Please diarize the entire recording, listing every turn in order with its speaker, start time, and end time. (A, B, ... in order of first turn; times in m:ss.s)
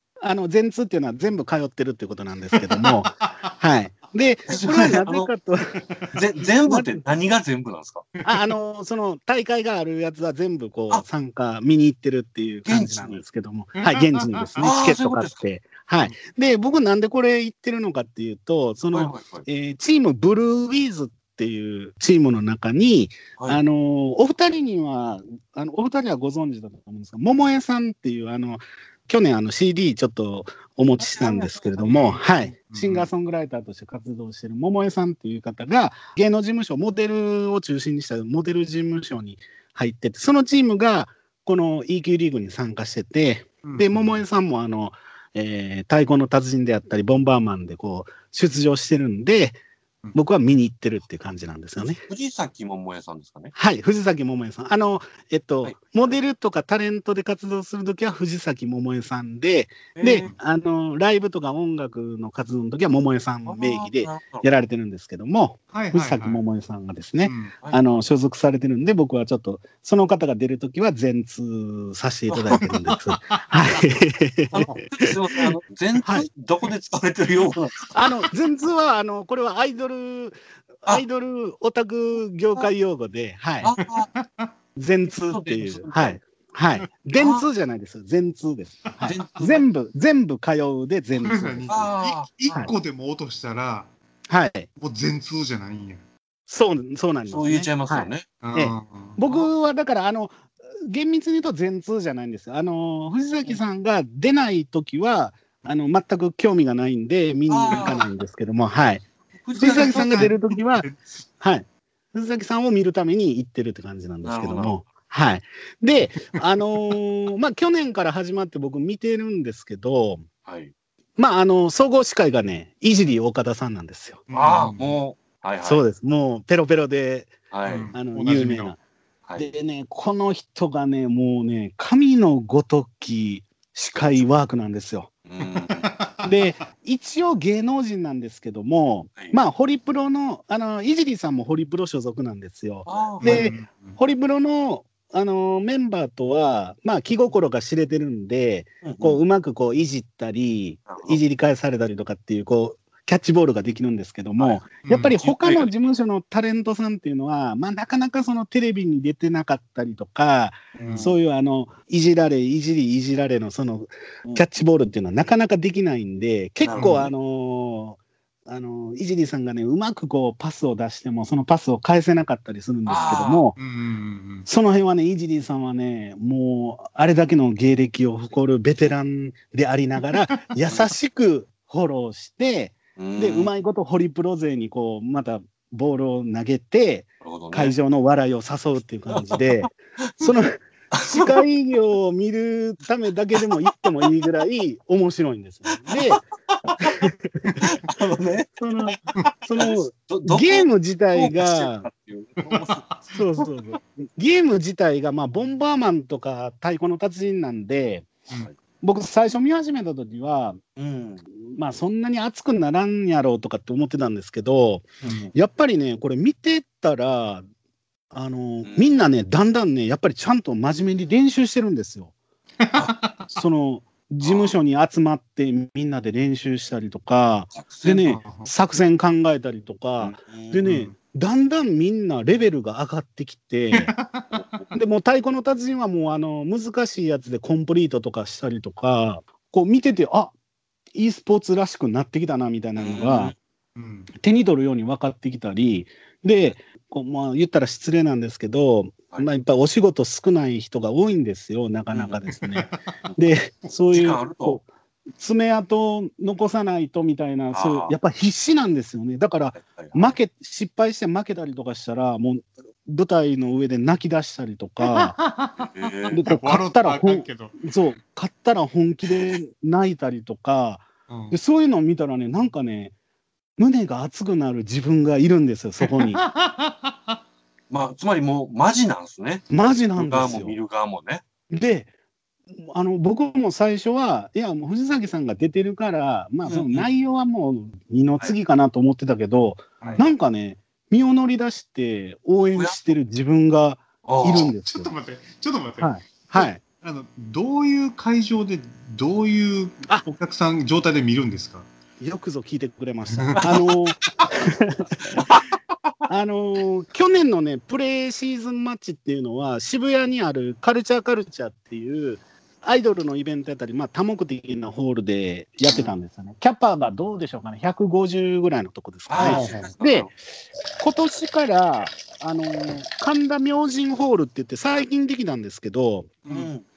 0:00.2-0:05.8 A
0:02.6-0:03.4 B
0:04.5-0:05.3 C
0:06.1-0:08.1 C
0:06.6-0:07.0 A
0:08.2-0:08.5 B
0:08.2-0:49.6 A
0:12.7-0:13.2 C
0:13.8-0:14.7 B
0:14.6-0:15.4 C
0:18.9-0:19.5 C
0:31.0-0:32.5 C
0:32.7-0:33.1 B
0:43.6-0:44.2 B
0:50.1-0:52.0 A
0:52.0-0:53.5 C
0:53.5-1:15.2 A
0:55.6-0:56.1 C
1:00.0-1:00.3 C
1:03.5-1:04.5 C
1:05.7-1:06.4 B
1:07.2-1:07.5 B
1:07.6-1:08.1 C
1:12.3-1:12.6 C
1:13.2-1:13.6 B
1:14.5-1:17.9 C
1:17.9-1:23.7 A
1:23.6-1:24.1 C
1:23.8-1:24.5 B
1:24.8-1:31.9 A
1:25.3-1:26.2 C
1:27.2-1:27.5 C
1:29.0-1:29.6 C
1:31.2-1:33.9 B
1:31.7-1:32.3 C
1:34.3-1:34.7 A
1:34.8-1:36.0 B
1:36.5-1:49.1 A
1:37.3-1:38.3 C
1:38.4-1:39.2 B
1:47.5-1:48.1 C
1:49.4-1:50.3 C
1:49.6-1:50.9 A
1:49.6-1:51.0 B
1:51.4-2:00.2 A
1:54.2-1:54.8 C
2:00.5-2:00.7 C
2:01.2-2:04.3 A
2:04.3-2:05.0 B
2:04.3-2:05.8 C
2:05.6-2:07.4 A
2:07.5-2:07.9 C
2:07.7-2:08.8 B
2:07.9-2:08.8 A
2:09.4-2:15.1 A
2:15.3-2:15.9 C
2:15.4-2:16.5 B
2:16.2-2:53.6 A
2:22.9-2:23.5 C
2:23.2-2:24.0 B
2:28.8-2:29.2 C
2:30.9-2:31.2 C
2:34.8-2:35.2 B
2:35.2-2:35.7 C
2:40.8-2:41.2 C
2:40.8-2:41.1 B
2:46.6-2:47.1 C
2:46.8-2:47.0 B
2:52.9-2:53.5 C
2:53.6-2:54.5 B
2:54.5-3:16.2 A
3:00.1-3:00.4 B
3:03.0-3:03.5 C
3:07.2-3:07.8 C
3:09.1-3:10.3 C
3:10.9-3:11.4 C
3:15.9-3:17.0 C
3:16.8-3:17.6 A
3:17.6-3:22.8 C
3:18.6-3:21.9 A
3:22.4-3:23.2 B
3:23.1-3:28.1 A
3:28.8-3:30.6 A
3:30.8-3:31.2 C
3:31.4-3:37.5 A
3:35.0-3:35.3 C
3:38.1-3:42.1 A
3:38.6-3:38.9 C
3:42.6-3:43.3 B
3:43.4-3:53.9 A
3:44.2-3:44.6 C
3:47.5-3:48.0 C
3:48.1-3:48.5 B
3:50.0-3:50.7 C
3:50.6-3:50.9 B
3:53.7-3:54.3 B
3:54.3-3:54.7 C
3:54.7-4:00.3 A
4:01.0-4:03.3 A
4:02.8-4:03.4 C
4:03.8-4:04.1 B
4:04.2-4:14.7 A
4:11.9-4:12.2 C
4:12.3-4:12.8 B
4:13.9-4:14.6 C
4:15.2-4:25.2 A
4:17.5-4:17.9 C
4:19.6-4:20.2 C
4:24.8-4:27.6 B
4:25.6-4:26.2 C
4:26.1-4:32.9 A
4:31.1-4:31.4 B
4:33.6-4:36.2 A
4:35.8-4:37.2 B
4:37.7-4:41.2 C
4:39.5-4:40.6 A
4:41.5-4:41.9 A
4:42.6-4:54.9 A
4:46.4-4:46.9 C
4:49.8-4:50.1 C
4:54.0-4:54.5 C
4:54.3-5:01.7 B
4:55.8-4:56.6 A
5:02.0-5:05.2 A
5:03.1-5:03.6 B
5:06.1-5:20.1 A
5:15.7-5:15.9 C
5:19.1-5:20.1 C
5:19.2-5:19.6 B
5:20.8-5:26.1 A
5:26.3-5:26.6 C